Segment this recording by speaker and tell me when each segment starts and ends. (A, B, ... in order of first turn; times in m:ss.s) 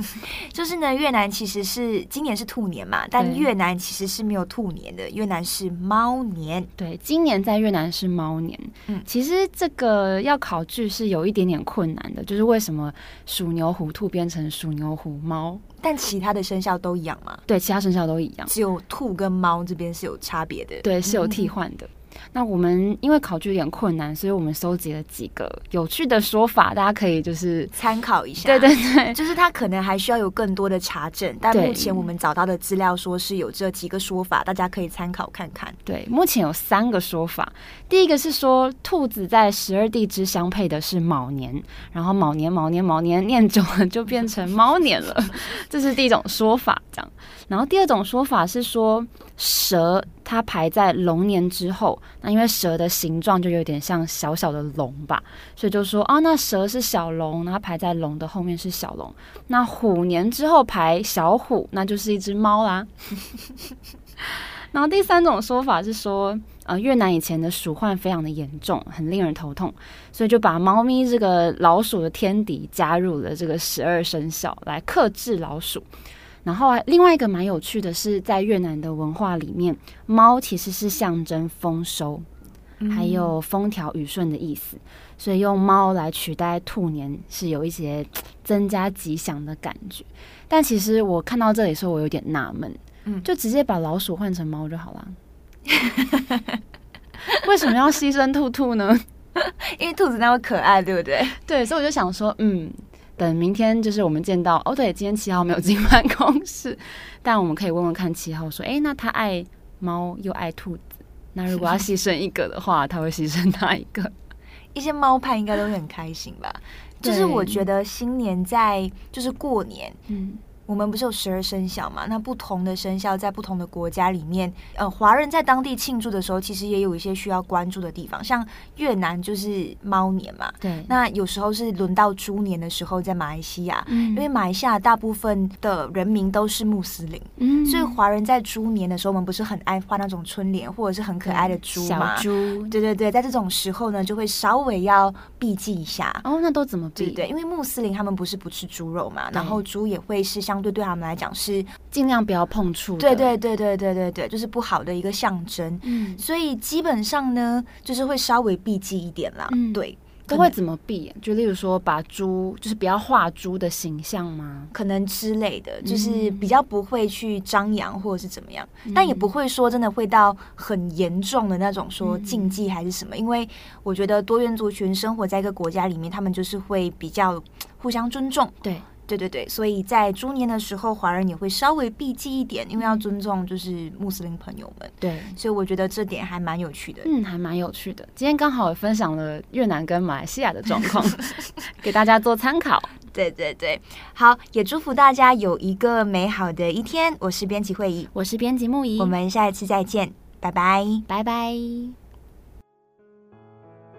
0:00.2-0:06.7 A
0:03.2-0:03.5 B
0:06.8-0:15.6 B
0:15.8-0:17.4 A
0:17.5-0:18.5 B
0:18.5-0:21.5 A
0:20.8-0:27.8 B
0:27.7-0:35.8 A
0:28.4-0:29.2 B
0:31.5-0:32.1 B
0:35.8-1:02.9 B
1:04.7-1:15.9 B
1:16.4-1:22.3 B
1:22.8-1:23.4 A
1:22.9-1:35.2 B
1:37.3-1:39.0 B
1:39.5-1:41.4 A
1:41.4-1:54.1 B
1:54.7-2:00.0 A
1:57.0-1:57.7 B
2:00.1-2:00.4 B
2:00.7-2:26.2 A
2:10.6-2:10.9 B
2:13.9-2:14.3 B
2:17.4-2:18.0 B
2:21.2-2:22.8 B
2:26.2-2:27.2 B
2:27.0-2:31.7 A
2:29.3-2:29.6 B
2:31.9-2:33.4 B
2:33.0-2:40.6 A
2:35.8-2:36.2 B
2:39.5-2:44.7 B
2:44.7-2:58.6 A
2:45.8-2:46.5 B
2:48.9-2:49.3 B
2:52.0-2:52.6 B
2:59.1-3:07.1 A
3:02.8-3:03.0 B
3:05.0-3:05.4 B
3:07.0-3:12.9 B
3:13.1-3:18.1 A
3:18.1-3:19.2 B
3:19.0-3:21.0 A
3:21.1-3:22.0 B